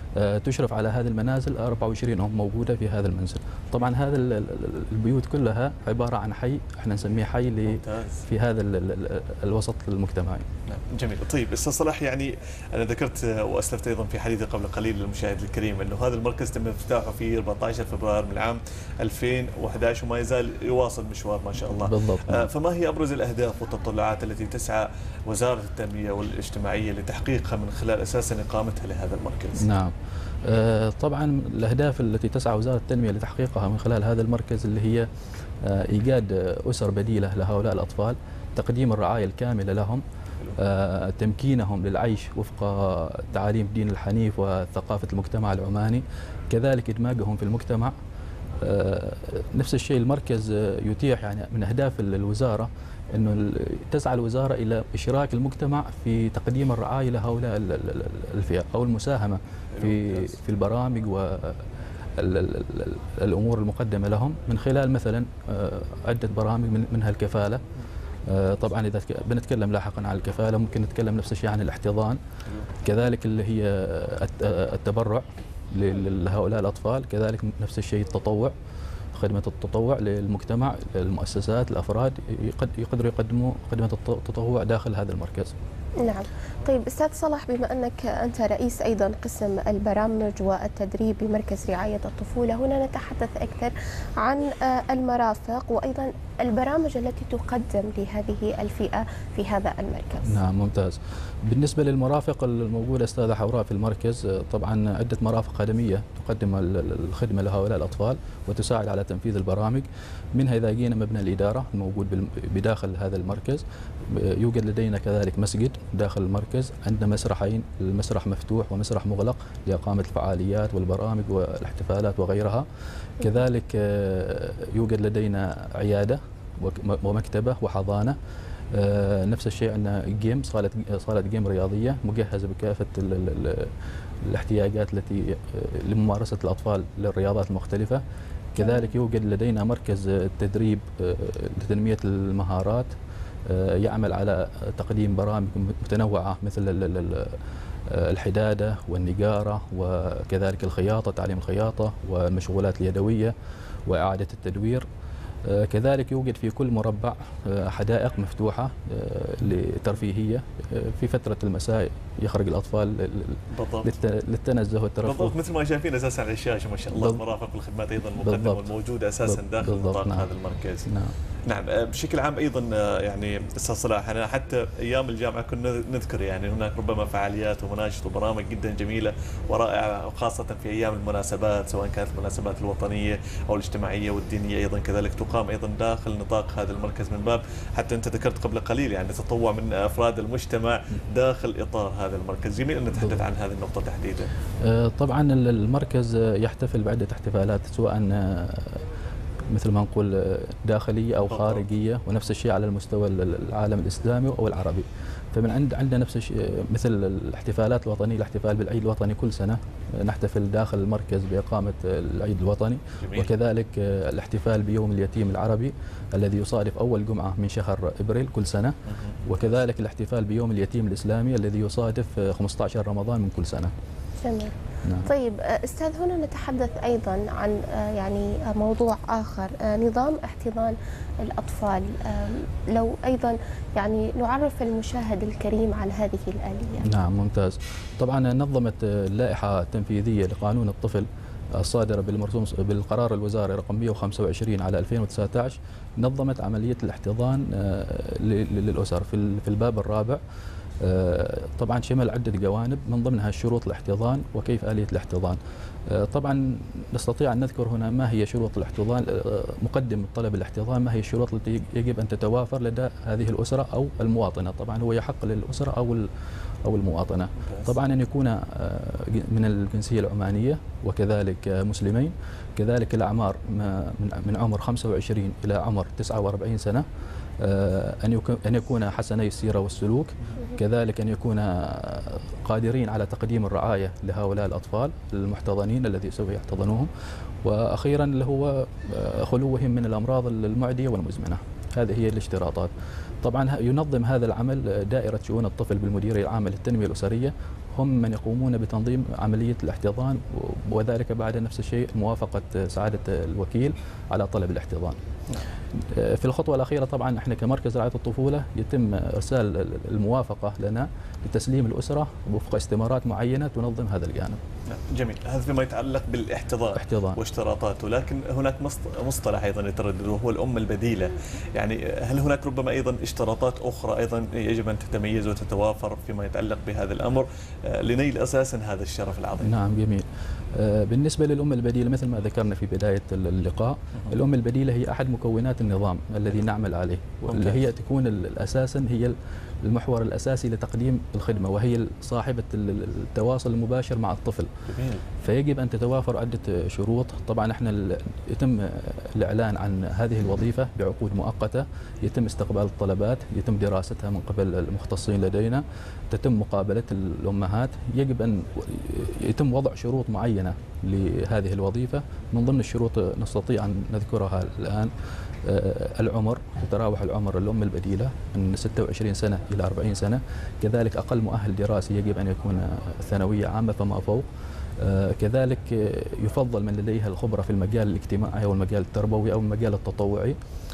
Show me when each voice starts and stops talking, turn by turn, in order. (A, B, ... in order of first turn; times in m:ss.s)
0:00.2-0:10.5 A
0:07.7-0:08.2 B
0:10.7-0:29.7 B
0:21.8-0:22.5 A
0:29.6-0:35.1 A
0:35.6-0:40.0 A
0:40.6-0:48.0 A
0:48.6-1:07.6 A
0:59.8-1:00.3 B
1:08.3-1:12.2 A
1:12.8-1:18.5 A
1:19.1-1:25.6 A
1:26.0-1:40.4 C
1:40.2-2:02.7 A
2:03.2-2:08.2 A
2:08.7-2:18.0 A
2:18.5-2:22.9 A
2:18.6-2:18.9 C
2:23.5-2:33.3 A
2:33.8-2:34.8 A
2:35.4-2:45.3 A
2:43.5-2:43.9 B
2:45.0-2:50.9 B
2:46.9-2:47.2 A
2:48.2-2:48.7 A
2:49.2-2:50.3 A
2:50.9-2:51.2 A
2:51.5-3:14.3 B
3:14.6-3:18.9 A
3:19.5-3:43.7 A
3:21.2-3:21.7 B
3:33.0-3:33.3 B
3:38.9-3:39.2 B
3:44.2-3:56.9 C
3:44.8-3:45.1 A
3:56.8-4:10.2 A
4:10.8-4:26.1 A
4:26.6-4:36.8 A
4:37.4-4:46.9 A
4:47.4-5:05.0 A
5:05.8-5:14.4 A
5:14.7-5:29.6 B
5:16.8-5:17.2 A
5:29.4-5:44.5 A
5:37.3-5:37.6 B
5:44.6-5:45.0 B
5:45.2-6:14.2 A
6:14.8-6:20.4 A